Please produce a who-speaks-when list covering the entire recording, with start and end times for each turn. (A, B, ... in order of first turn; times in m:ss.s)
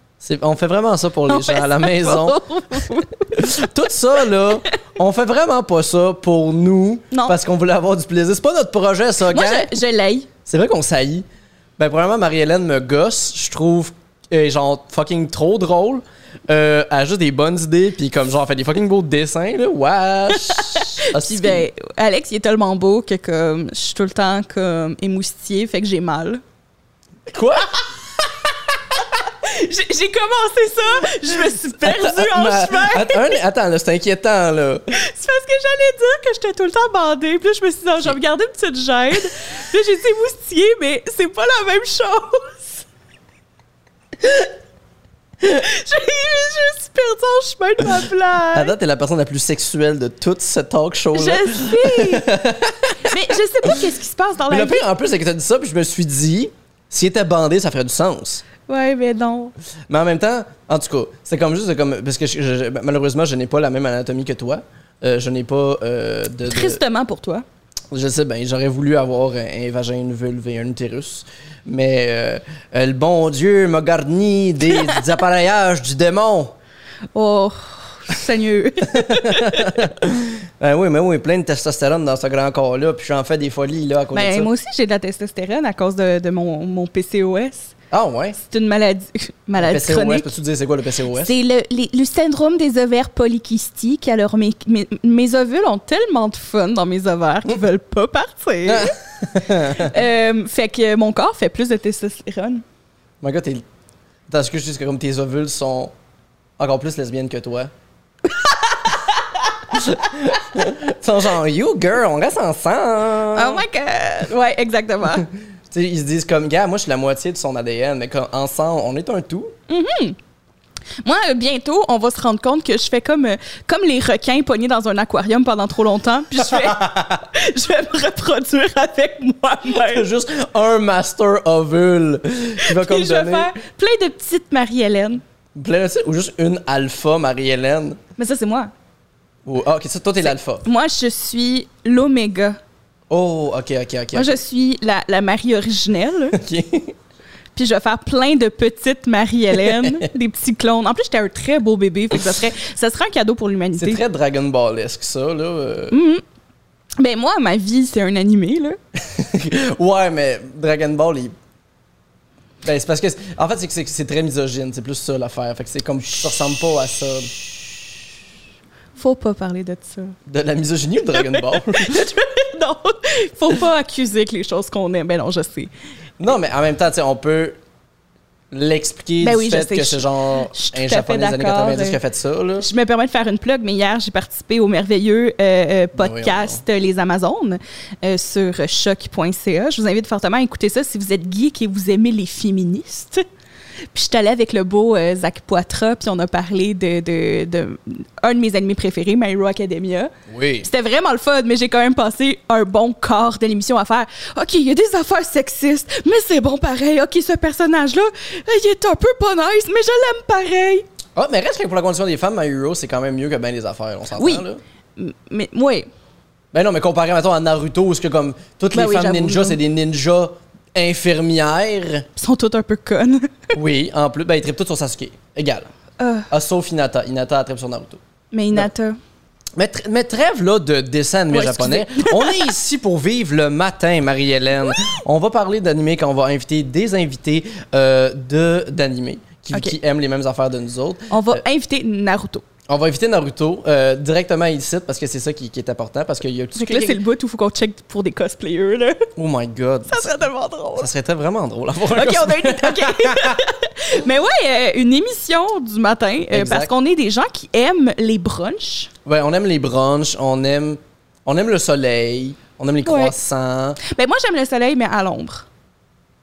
0:00.2-0:02.4 A
0:01.3-0:03.4 B
0:03.3-0:09.7 A
0:07.1-0:07.4 B
0:09.3-0:10.3 B
0:10.5-0:11.2 A
0:11.8-0:21.7 A
0:20.5-0:26.4 B
0:27.3-0:28.2 A
0:29.3-0:33.4 B
0:31.8-0:34.9 A
0:34.9-0:42.8 B
0:45.4-0:48.7 B
0:48.5-0:53.9 A
0:51.1-0:52.3 B
0:53.0-0:54.9 B
0:54.5-0:58.4 A
0:58.7-0:59.5 B
0:59.9-1:06.8 A
1:06.5-1:07.4 B
1:07.9-1:16.5 A
1:17.1-1:19.7 B
1:18.9-1:24.5 A
1:24.1-1:27.7 B
1:27.9-1:28.4 A
1:28.4-1:30.3 B
1:29.6-1:31.3 A
1:31.1-1:39.0 B
1:38.7-1:39.9 A
1:39.7-1:42.6 B
1:43.2-1:43.6 A
1:44.3-1:45.9 A
1:46.6-1:47.7 A
1:49.7-1:53.6 A
1:53.3-1:55.3 B
1:55.1-1:59.5 A
1:59.7-2:00.2 B
2:01.0-2:10.1 B
2:06.4-2:07.2 A
2:09.8-2:13.5 A
2:12.6-2:15.2 B
2:15.6-2:18.0 A
2:18.2-2:18.7 B
2:19.4-2:20.6 A
2:20.6-2:22.6 B
2:23.1-2:24.4 A
2:24.1-2:26.4 B
2:26.3-2:26.9 A
2:27.6-2:34.0 B
2:29.6-2:30.1 A
2:33.8-2:36.0 A
2:35.9-2:36.2 B
2:37.0-2:38.8 B
2:39.0-2:41.4 A
2:42.6-2:47.3 A
2:49.0-2:50.2 B
2:50.3-2:52.0 A
2:51.2-2:55.7 B
2:56.2-2:57.6 A
2:58.5-3:02.7 A
2:59.2-3:02.0 B
3:02.6-3:13.2 B
3:06.0-3:06.6 A
3:13.9-3:30.9 B
3:20.3-3:20.7 A
3:31.2-3:34.6 A
3:34.2-3:34.4 B
3:35.0-3:35.9 B
3:36.5-3:42.1 A
3:38.7-3:39.6 B
3:42.2-3:43.5 B
3:43.5-3:45.7 A
3:46.0-3:46.3 B
3:46.3-3:48.0 A
3:48.3-3:49.0 B
3:49.6-4:01.4 A
3:51.3-3:52.5 B
4:01.1-4:02.4 B
4:02.7-4:07.0 A
4:06.6-4:09.1 B
4:09.2-4:10.2 A
4:09.9-4:10.9 B
4:10.8-4:13.4 A
4:11.9-4:18.9 B
4:16.3-4:16.7 A
4:19.1-4:23.8 A
4:22.8-4:23.1 B
4:23.8-4:25.5 B